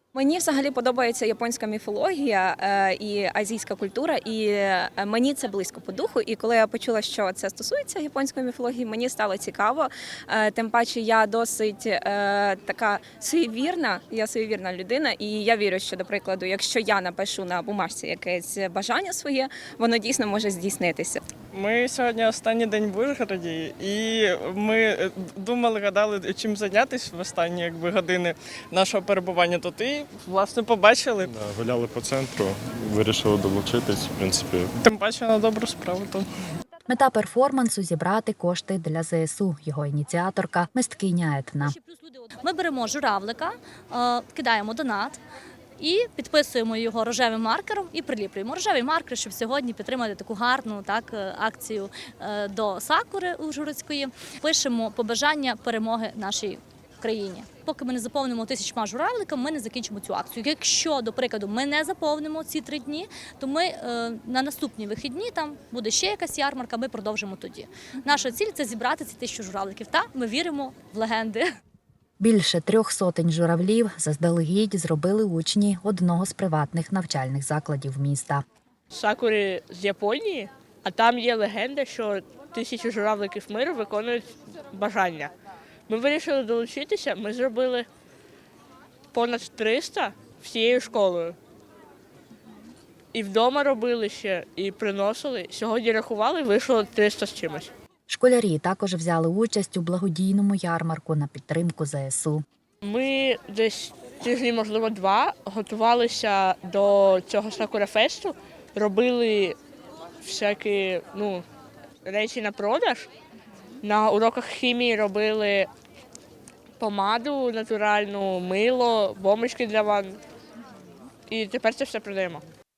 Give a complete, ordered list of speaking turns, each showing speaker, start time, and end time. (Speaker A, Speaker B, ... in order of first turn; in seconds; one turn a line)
Speaker A: 0.1-21.2
Speaker B: 21.5-31.3
Speaker C: 31.2-34.7
Speaker B: 34.8-36.3
Speaker D: 36.9-41.8
Speaker E: 41.6-45.2
Speaker E: 45.8-71.5
Speaker D: 72.2-78.4
Speaker F: 78.9-85.3
Speaker F: 85.9-87.9
Speaker F: 89.1-91.4
Speaker F: 93.1-97.7
Speaker D: 98.1-102.4
Speaker F: 102.8-109.6
Speaker F: 110.2-111.5
Speaker F: 112.0-113.1
Speaker F: 113.8-115.7
Speaker F: 116.8-120.2
Speaker F: 121.3-122.4